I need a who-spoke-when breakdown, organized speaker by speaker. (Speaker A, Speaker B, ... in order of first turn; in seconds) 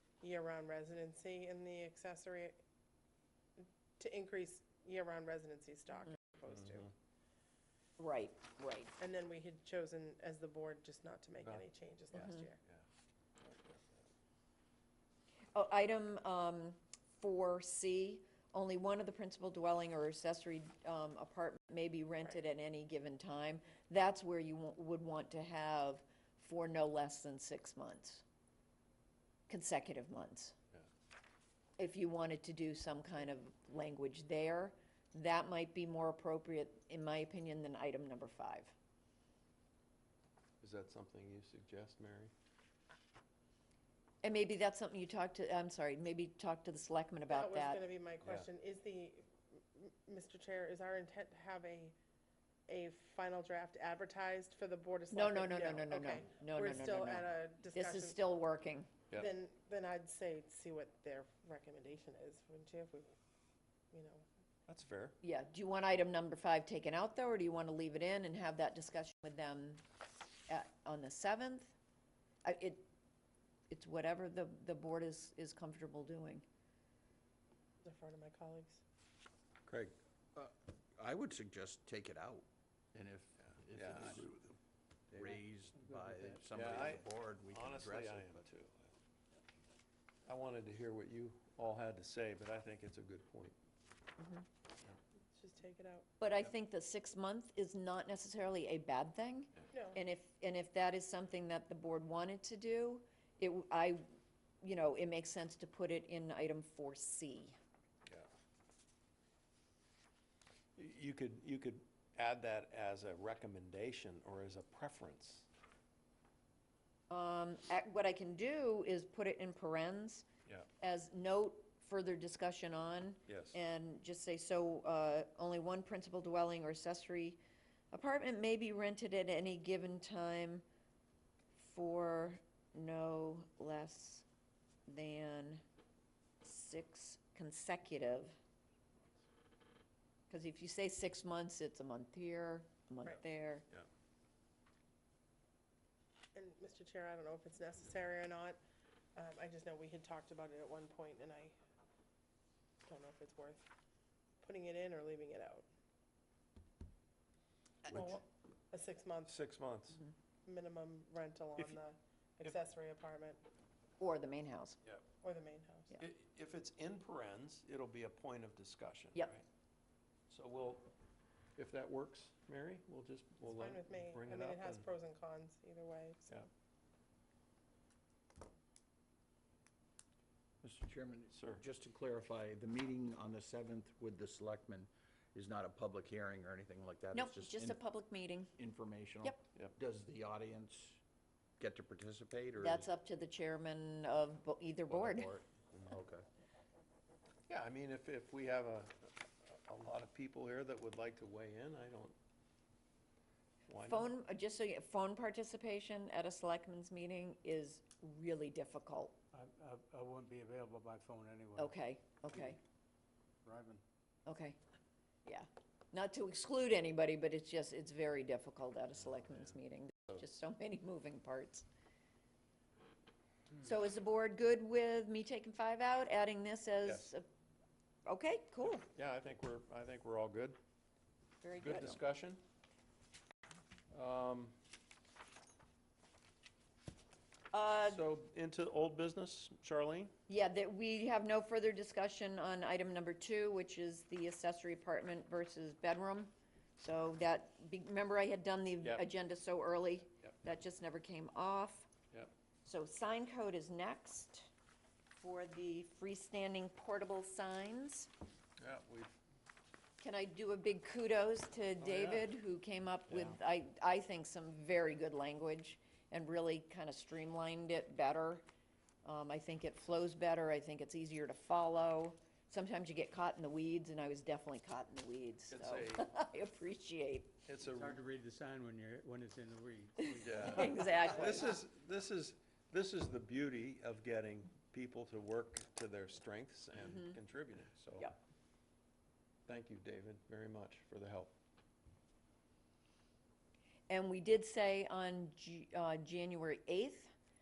Speaker A: 0.2-2.6, 3.6-6.9, 9.0-12.6, 47.3-51.9, 52.7-58.2, 59.1-63.1, 63.9-64.2, 77.8-78.8, 95.3-96.1, 99.7-100.0, 146.3-148.6, 149.1-151.6, 152.8-153.7, 154.4-155.7, 157.9-159.3, 160.4-163.4, 165.2-166.0, 173.4-176.3
Speaker B: 6.5-6.9, 11.4-12.8, 13.4-14.0, 40.6-42.3, 48.2-48.5, 64.7-65.2, 79.7-79.9, 83.4-84.2, 86.5-88.9, 90.2-93.5, 110.8-115.5, 123.3-123.5, 157.9-158.2, 159.3-160.0, 166.0-169.4, 170.3-170.9, 171.6-174.8, 181.3-181.6, 197.5-202.1, 203.7-204.1, 228.9-230.6, 231.6-232.4, 233.9-234.5, 237.8-240.1, 258.6-259.2, 261.8-262.3, 263.1-263.4, 275.5-276.1, 277.5-278.0, 280.2-280.6, 281.1-288.0, 289.5-291.3
Speaker C: 8.0-8.9, 15.5-28.2, 29.5-30.5, 31.8-38.7, 44.2-47.8, 55.1-58.9, 65.2-69.8, 70.5-71.7, 72.4-72.8, 73.7-76.4, 94.2-94.4, 96.2-104.0, 104.6-107.5, 117.1-120.3, 120.8-127.4, 127.9-130.6, 131.5-134.2, 134.9-135.6, 136.4-138.3, 140.3-143.6, 164.0-164.8, 187.1-188.5, 192.6-195.3, 203.7-209.2, 211.6-212.6, 214.2-214.6, 215.2-221.7, 223.6-227.2, 228.1-228.8, 231.4-232.0, 237.5-238.0, 240.3-251.9, 252.6-254.5, 255.2-258.1, 260.0-268.4, 269.0-277.4, 280.0-281.6, 286.9-287.2, 293.9-297.1
Speaker D: 80.3-84.6, 85.1-88.4, 180.6-187.8, 188.6-191.0, 191.6-192.9, 194.9-196.2
Speaker E: 85.9-86.4, 209.3-211.7, 213.4-213.8, 277.6-281.4